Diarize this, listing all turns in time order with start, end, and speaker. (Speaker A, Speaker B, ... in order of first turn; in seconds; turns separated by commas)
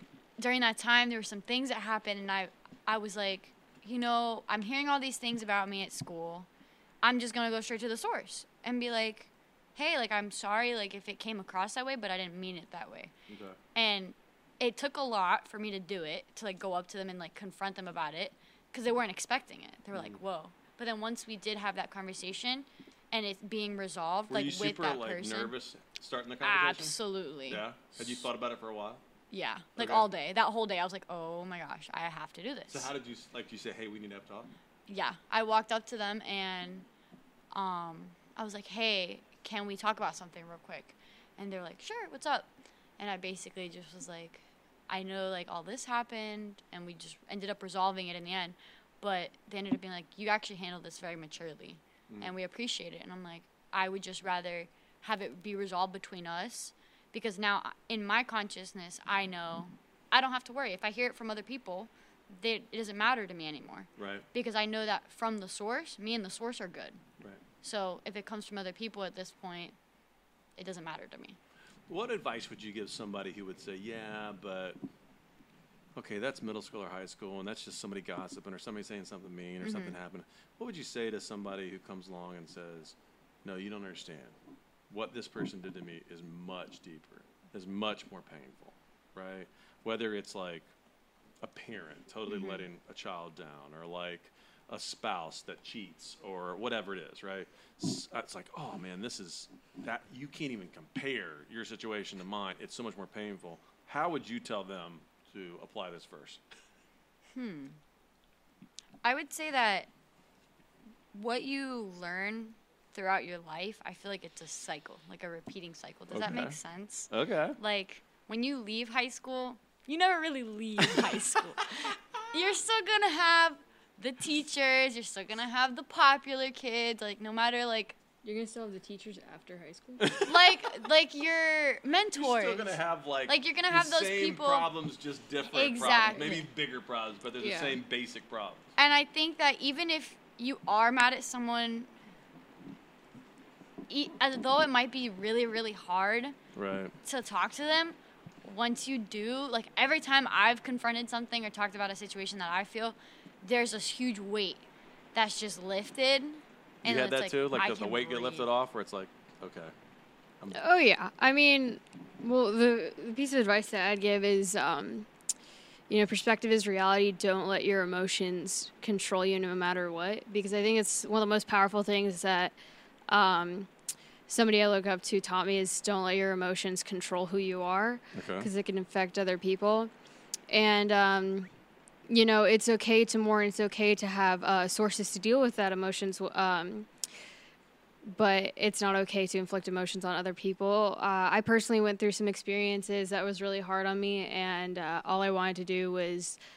Speaker A: 0.4-6.5, Speaker A: 7.0-13.1, Speaker B: 13.3-13.6, Speaker A: 13.7-25.6, Speaker B: 19.9-20.2, Speaker B: 24.3-29.0, Speaker A: 26.4-27.6, Speaker A: 29.3-32.9, Speaker B: 29.8-30.1, Speaker B: 32.7-34.5, Speaker A: 34.9-36.9, Speaker A: 37.5-67.0, Speaker B: 64.0-64.2, Speaker A: 67.6-69.8, Speaker A: 70.6-71.4, Speaker B: 71.9-74.8, Speaker B: 75.9-84.4, Speaker A: 79.6-80.0, Speaker B: 84.9-90.7, Speaker B: 91.4-106.4, Speaker A: 92.3-92.6, Speaker A: 107.3-107.8, Speaker A: 109.0-109.9, Speaker A: 111.1-128.0, Speaker B: 116.1-116.6, Speaker B: 117.1-117.6, Speaker C: 128.2-130.2, Speaker B: 130.0-130.7, Speaker A: 130.2-134.7, Speaker B: 132.1-138.6, Speaker A: 135.4-136.5, Speaker C: 137.4-137.8, Speaker A: 138.8-141.9, Speaker A: 143.9-146.4, Speaker B: 146.5-146.9, Speaker A: 147.0-158.5, Speaker B: 156.8-159.7, Speaker C: 160.5-165.1, Speaker C: 165.9-172.6, Speaker C: 173.1-173.7, Speaker C: 174.3-179.9, Speaker B: 178.1-178.5, Speaker C: 180.5-181.5, Speaker C: 182.1-186.9, Speaker C: 188.0-196.4